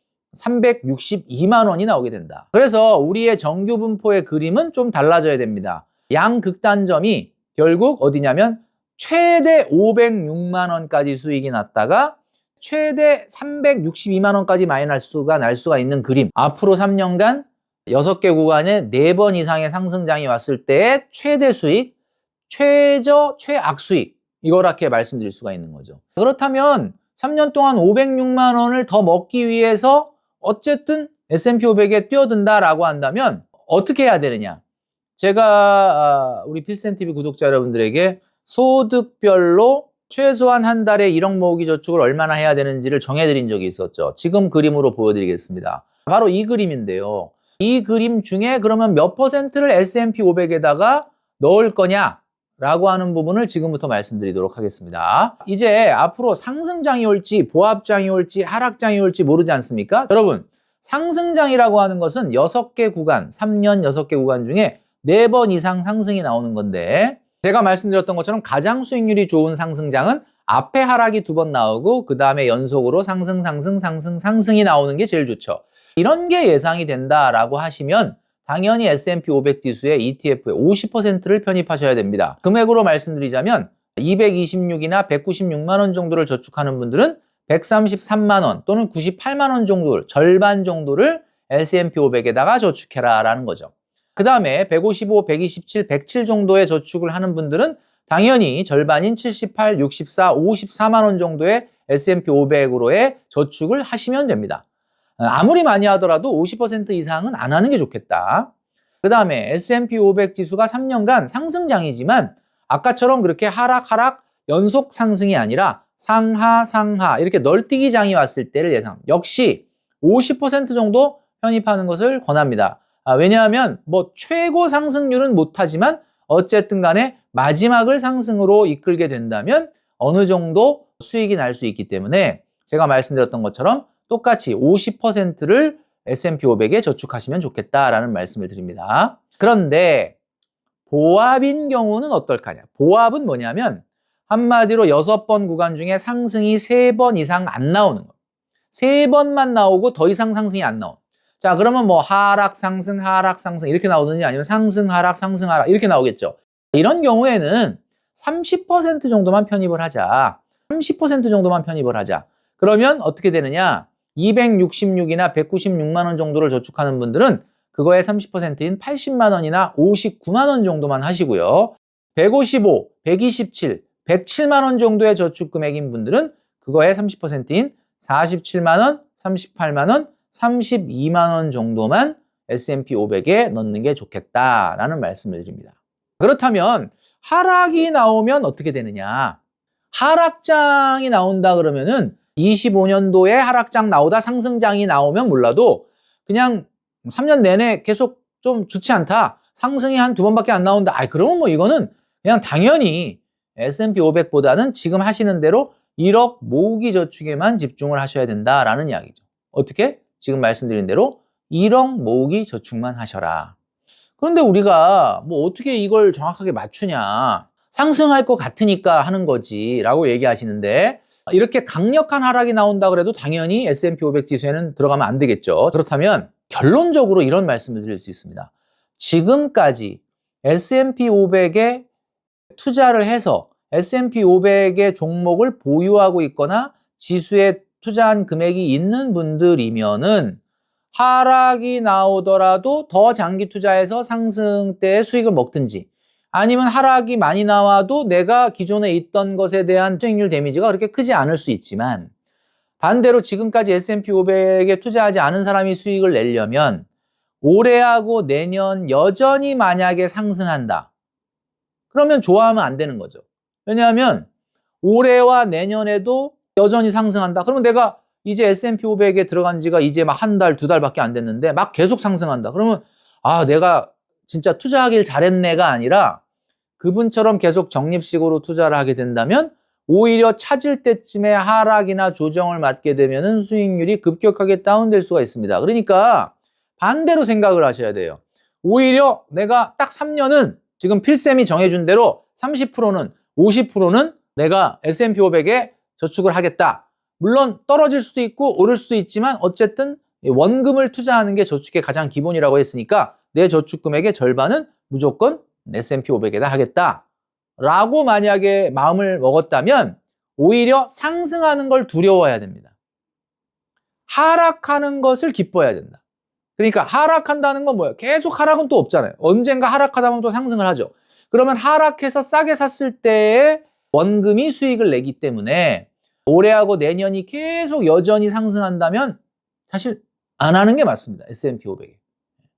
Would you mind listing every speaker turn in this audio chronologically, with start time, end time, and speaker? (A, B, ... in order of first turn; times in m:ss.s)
0:00.3-0:21.9 A
0:22.5-0:34.6 A
0:35.2-1:44.6 A
1:45.2-1:48.5 A
1:49.0-2:20.1 A
2:20.9-2:28.1 A
2:28.7-3:09.4 A
3:09.9-3:33.5 A
3:34.2-3:51.8 A
3:52.5-4:00.4 A
4:00.9-4:12.1 A
4:12.8-4:16.9 A
4:17.4-4:20.9 A
4:21.9-4:24.3 A
4:24.8-4:36.2 A
4:36.8-5:07.0 A
5:07.6-5:12.7 A
5:14.1-5:16.0 A
5:16.6-5:29.2 A
5:29.7-5:31.9 A